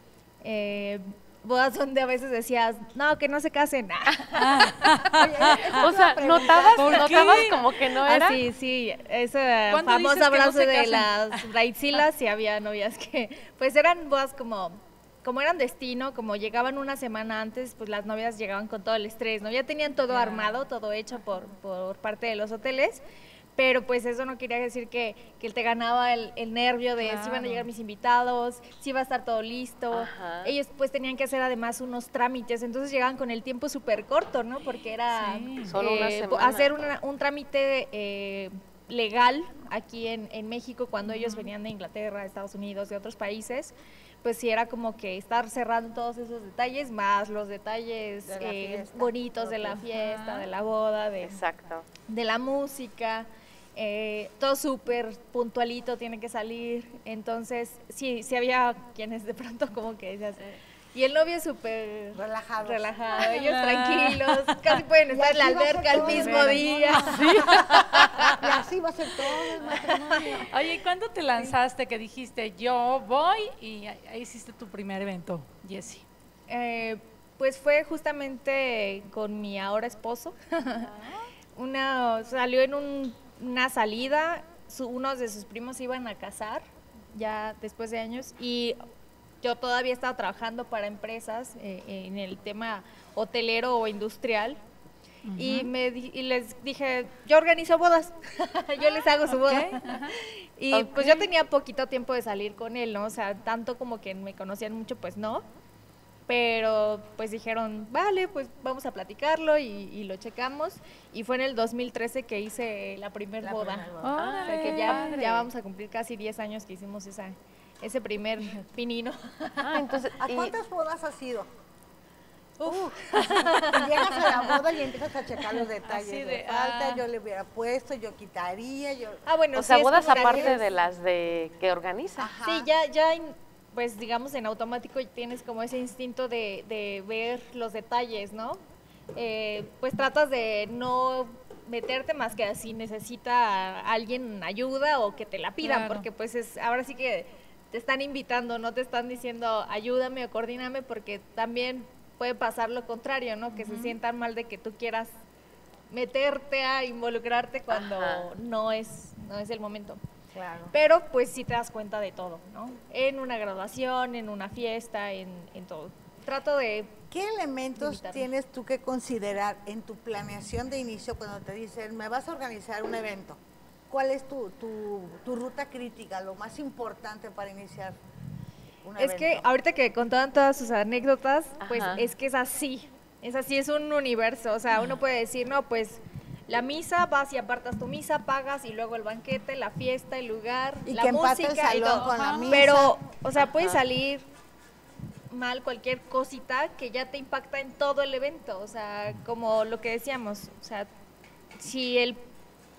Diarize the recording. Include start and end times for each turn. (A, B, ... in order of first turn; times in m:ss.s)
0:00.4-0:05.1 A
0:04.4-0:05.6 B
0:05.1-0:07.2 C
0:05.5-0:08.4 D
0:06.8-0:07.7 B
0:07.9-0:23.0 A
0:09.7-0:11.5 B
0:20.1-0:20.6 B
0:23.6-0:51.4 A
0:27.0-0:27.7 B
0:29.9-0:30.5 D
0:35.1-0:35.8 B
0:35.6-0:36.7 D
0:41.0-0:41.5 B
0:48.2-0:49.8 C
0:49.8-0:50.5 B
0:51.2-0:51.8 D
0:52.1-1:07.2 A
1:02.1-1:03.0 C
1:03.2-1:04.8 B
1:05.1-1:10.5 C
1:05.9-1:08.4 B
1:07.1-1:08.4 D
1:09.5-1:10.4 A
1:10.4-1:16.0 B
1:16.5-1:20.9 A
1:21.5-1:28.8 A
1:29.4-1:34.6 A
1:35.2-1:35.7 B
1:35.4-1:45.4 A
1:39.3-1:40.1 B
1:40.7-1:41.0 D
1:41.0-1:41.2 B
1:46.3-2:00.0 A
1:53.4-1:54.3 C
1:54.0-1:55.3 B
1:54.2-1:55.5 D
1:59.6-2:00.5 D
2:00.2-2:01.5 C
2:02.6-2:04.7 A
2:03.5-2:09.2 C
2:05.8-2:07.0 B
2:09.2-2:10.7 A
2:09.5-2:12.3 D
2:10.0-2:10.6 C
2:12.2-2:12.7 C
2:12.4-2:18.6 A
2:19.1-2:35.2 A
2:25.6-2:26.1 B
2:33.5-2:34.0 B
2:35.9-2:40.0 A
2:37.7-2:38.3 D
2:40.3-2:40.7 C
2:40.7-2:47.0 A
2:47.1-2:58.0 C
2:47.8-2:48.3 A
2:58.8-2:59.5 C
2:59.0-3:14.3 A
3:01.6-3:02.0 D
3:10.8-3:12.9 C
3:11.9-3:12.7 B
3:13.4-3:13.8 D
3:15.3-3:20.9 A
3:21.5-3:22.3 A